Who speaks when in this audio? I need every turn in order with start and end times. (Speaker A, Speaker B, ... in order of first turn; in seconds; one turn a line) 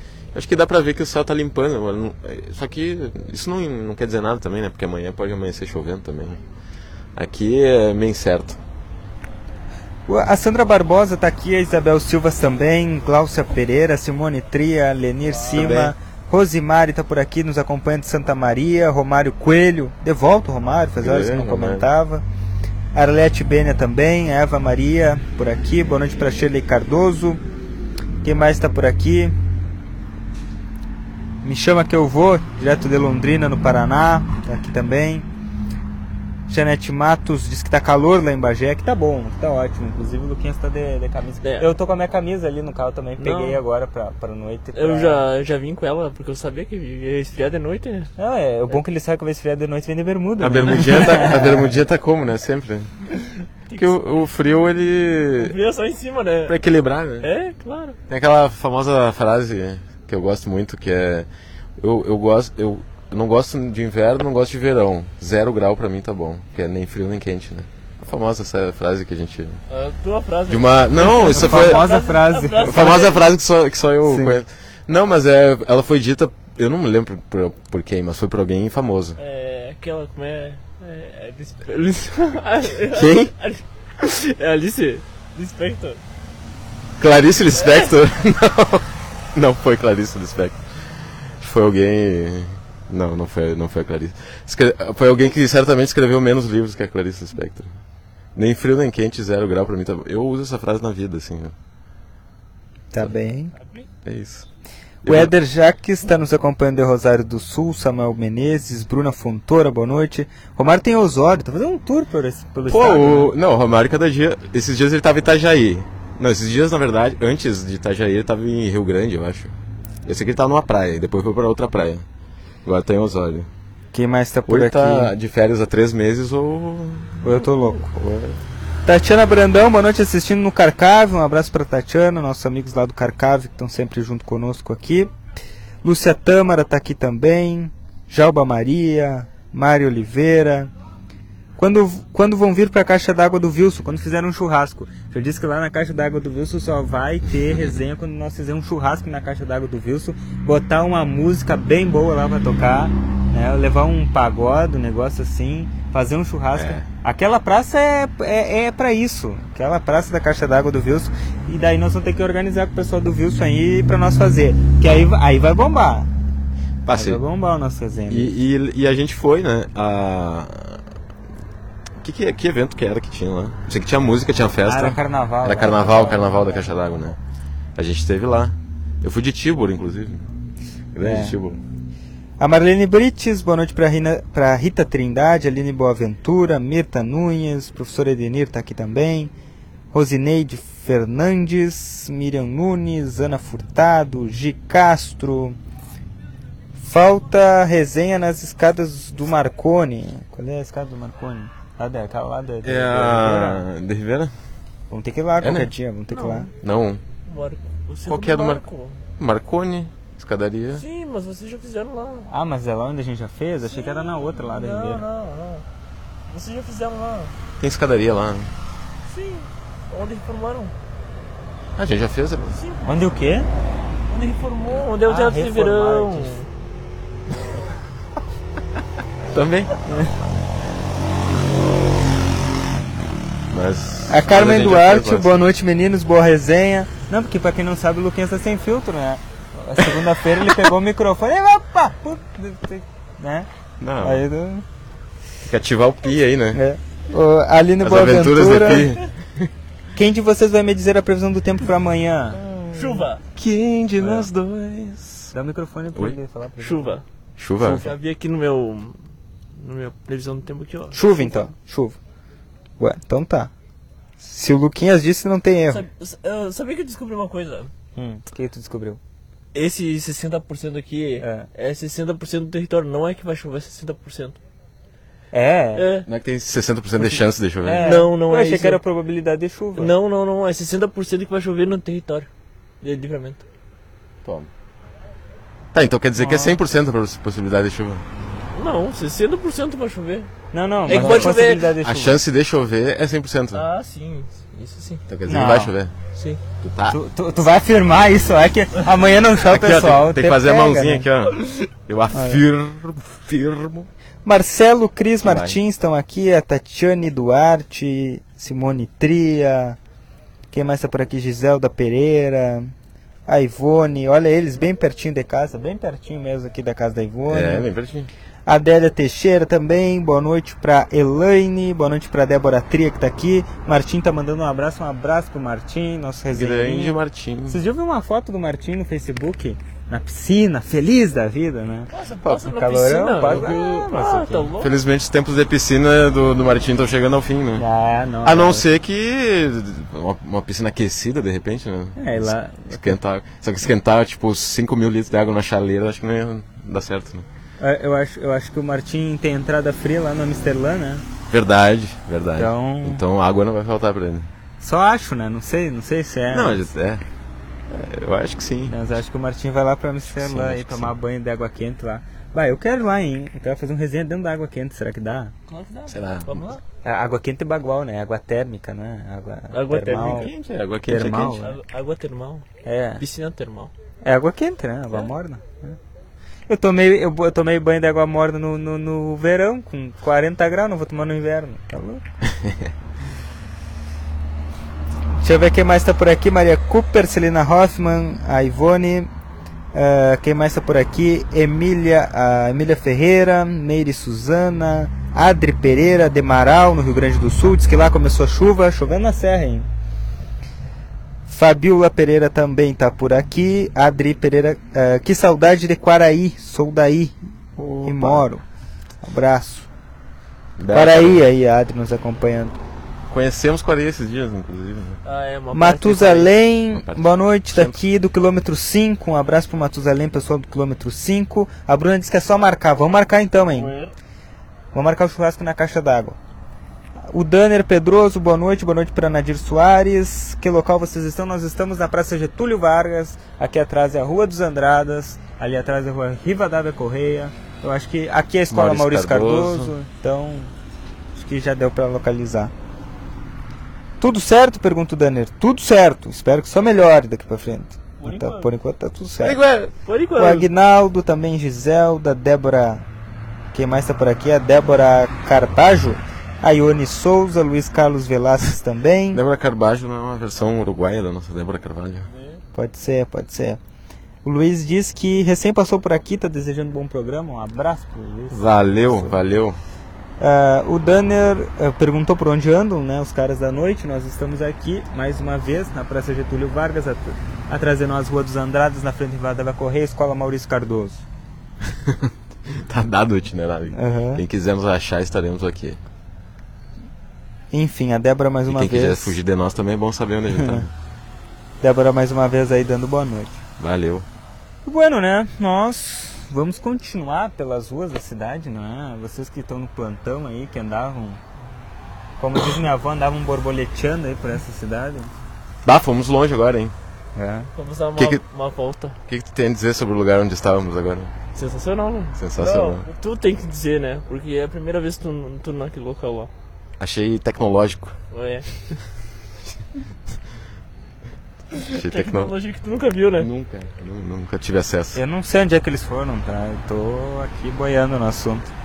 Speaker A: 0.3-6.4
Speaker A: 7.1-8.6
Speaker B: 10.1-22.2
Speaker A: 15.5-15.9
Speaker A: 21.0-21.9
Speaker B: 22.9-27.4
Speaker B: 28.2-29.3
Speaker B: 31.4-35.3
Speaker B: 36.5-45.2
Speaker C: 43.2-43.6
Speaker C: 44.7-48.1
Speaker B: 48.2-51.8
Speaker A: 50.4-52.9
Speaker C: 53.2-54.1
Speaker A: 53.7-55.5
Speaker C: 55.3-56.6
Speaker A: 56.5-57.3
Speaker C: 57.2-58.0
Speaker A: 58.1-69.6
Speaker C: 69.7-73.2
Speaker A: 70.5-71.9
Speaker B: 71.2-73.0
Speaker A: 72.6-79.2
Speaker B: 74.0-74.4
Speaker C: 79.2-86.0
Speaker A: 82.9-83.3
Speaker A: 87.0-90.6
Speaker C: 87.6-87.9
Speaker A: 91.3-97.7
Speaker A: 98.3-101.5
Speaker B: 102.9-103.5
Speaker C: 103.5-103.9
Speaker A: 104.0-104.5
Speaker A: 105.0-105.3
Speaker B: 105.0-113.3
Speaker A: 112.7-119.5
Speaker A: 120.0-122.0
Speaker A: 122.6-123.5
Speaker B: 123.9-125.1
Speaker A: 124.5-128.4
Speaker B: 127.2-127.9
Speaker B: 128.8-135.1
Speaker B: 135.8-140.7
Speaker B: 141.6-166.1
Speaker A: 156.6-156.8
Speaker A: 166.8-167.2
Speaker B: 166.9-168.3
Speaker A: 168.1-170.8
Speaker A: 172.0-177.2
Speaker B: 174.6-176.7
Speaker A: 177.8-180.2
Speaker A: 180.9-181.6
Speaker B: 181.0-181.4
Speaker B: 182.4-189.3
Speaker B: 189.9-195.6
Speaker B: 196.8-203.7
Speaker A: 202.6-204.3
Speaker B: 204.9-206.5
Speaker A: 205.4-205.7
Speaker C: 206.1-206.5
Speaker A: 206.6-207.0
Speaker C: 207.2-209.0
Speaker A: 208.1-208.6
Speaker A: 209.2-210.8
Speaker C: 210.7-212.3
Speaker B: 212.3-215.0
Speaker C: 213.6-215.7
Speaker C: 216.3-217.3
Speaker A: 217.6-218.5
Speaker C: 219.1-220.7
Speaker A: 221.8-222.6
Speaker C: 222.6-222.9
Speaker B: 222.8-223.5
Speaker C: 224.1-226.5
Speaker B: 225.0-226.4
Speaker A: 229.3-229.7
Speaker B: 229.9-230.1
Speaker A: 233.5-235.4
Speaker B: 234.1-243.5
Speaker A: 243.8-244.2
Speaker B: 244.0-244.6
Speaker A: 245.4-246.6
Speaker B: 246.5-248.9
Speaker A: 247.8-249.5
Speaker B: 249.9-252.4
Speaker A: 252.4-255.3
Speaker C: 252.7-253.2
Speaker B: 254.0-254.3
Speaker B: 255.3-257.0
Speaker C: 256.6-257.0
Speaker A: 257.4-257.9
Speaker C: 257.6-259.0
Speaker C: 259.6-261.4
Speaker B: 260.9-262.0
Speaker B: 262.8-263.5
Speaker B: 264.2-265.8
Speaker C: 265.7-267.7
Speaker B: 267.9-269.0
Speaker C: 269.5-274.4
Speaker B: 271.2-271.5
Speaker B: 275.3-275.9
Speaker C: 275.7-276.1
Speaker A: 276.1-277.9
Speaker B: 277.6-279.9
Speaker C: 277.8-278.8
Speaker C: 279.8-282.3
Speaker C: 282.8-283.4
Speaker A: 284.2-284.5
Speaker A: 285.7-288.0
Speaker B: 286.2-286.6
Speaker C: 288.5-290.3
Speaker B: 290.5-292.2
Speaker C: 290.9-291.7
Speaker A: 290.9-293.6
Speaker C: 293.5-295.0
Speaker A: 295.1-295.9
Speaker B: 295.3-295.7
Speaker C: 296.1-296.4
Speaker A: 296.6-297.0
Speaker B: 296.9-301.1
Speaker A: 299.4-303.9
Speaker B: 302.1-302.4
Speaker B: 304.2-309.8
Speaker A: 305.2-305.6
Speaker B: 310.5-312.7
Speaker B: 313.3-317.7
Speaker A: 317.3-318.1
Speaker B: 318.5-326.9
Speaker A: 326.3-327.6
Speaker B: 327.5-334.5
Speaker C: 331.9-334.7
Speaker A: 334.6-337.6
Speaker B: 337.6-338.6
Speaker A: 338.2-347.2
Speaker B: 341.9-343.0
Speaker B: 347.6-351.0
Speaker A: 351.3-354.3
Speaker B: 352.4-353.0
Speaker B: 354.6-356.7
Speaker A: 356.3-357.0
Speaker A: 357.7-358.8
Speaker B: 358.7-365.3
Speaker A: 360.1-360.9
Speaker C: 365.5-366.6
Speaker A: 365.9-366.4
Speaker B: 366.8-370.3
Speaker C: 369.5-370.3
Speaker A: 369.9-371.4
Speaker B: 370.9-371.6
Speaker C: 371.3-372.5
Speaker B: 372.6-373.0
Speaker C: 373.0-373.7
Speaker B: 374.0-375.8
Speaker B: 376.5-382.0
Speaker A: 382.4-382.7
Speaker B: 385.2-389.1
Speaker B: 389.7-399.7
Speaker B: 401.3-407.1
Speaker A: 407.6-408.2
Speaker B: 407.8-408.4
Speaker B: 409.0-409.7
Speaker A: 410.6-411.3
Speaker B: 410.7-412.6
Speaker A: 413.1-415.0
Speaker C: 415.0-416.4
Speaker B: 415.5-423.7
Speaker A: 416.7-417.8
Speaker C: 423.4-423.9
Speaker B: 424.7-426.2
Speaker B: 427.1-440.5
Speaker A: 438.5-439.7
Speaker B: 441.1-442.5
Speaker B: 444.0-449.4
Speaker C: 448.0-448.5
Speaker A: 449.2-449.7
Speaker C: 449.8-450.5
Speaker B: 450.2-452.9
Speaker B: 453.5-459.2
Speaker A: 459.1-462.1
Speaker C: 462.1-462.4
Speaker B: 462.5-463.6
Speaker B: 464.2-469.2
Speaker A: 468.3-469.6
Speaker B: 470.2-481.0
Speaker A: 481.6-485.8
Speaker B: 483.7-484.2
Speaker B: 487.5-489.2
Speaker A: 488.5-490.7
Speaker B: 490.3-490.6
Speaker B: 491.6-493.4
Speaker A: 493.6-494.1
Speaker B: 494.6-501.2
Speaker B: 502.2-505.1
Speaker A: 505.6-506.7
Speaker B: 507.1-507.5
Speaker C: 507.6-509.0
Speaker A: 507.9-508.2
Speaker A: 509.1-511.1
Speaker C: 511.3-516.3
Speaker A: 512.2-512.9
Speaker A: 516.8-518.0
Speaker C: 518.1-518.6
Speaker C: 521.5-523.3
Speaker A: 521.7-522.3
Speaker A: 523.2-525.0
Speaker B: 524.9-528.5